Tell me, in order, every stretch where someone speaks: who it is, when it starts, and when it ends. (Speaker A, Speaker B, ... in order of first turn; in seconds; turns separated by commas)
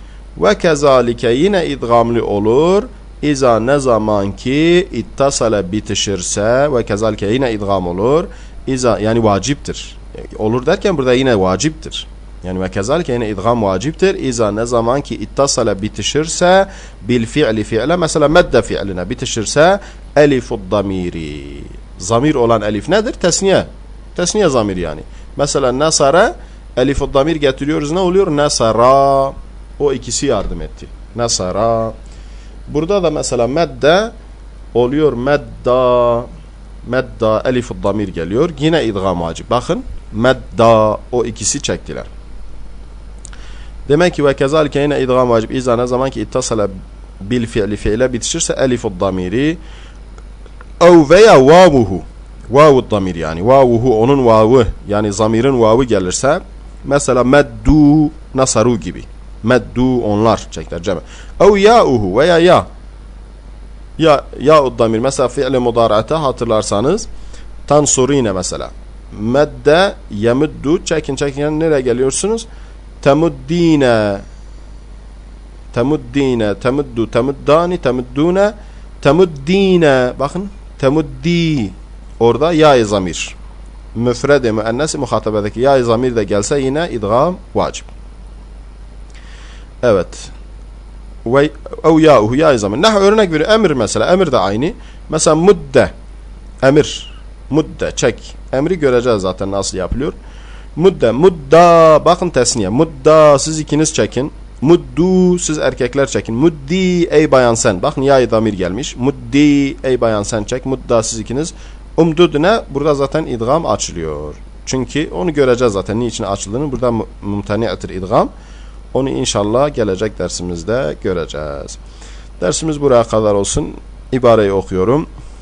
Speaker A: 0.3-31.9, Speaker A: 32.7-34.1, Speaker A: 34.7-36.3, Speaker A: 36.8-42.1, Speaker A: 43.9-49.6, Speaker A: 50.8-62.7, Speaker A: 64.0-67.1, Speaker A: 67.7-72.5, Speaker A: 73.0-74.2, Speaker A: 75.7-83.3, Speaker A: 83.9-87.9, Speaker A: 89.8-90.3, Speaker A: 91.2-95.9, Speaker A: 96.6-100.2, Speaker A: 100.8-118.3, Speaker A: 118.9-121.8, Speaker A: 122.4-125.0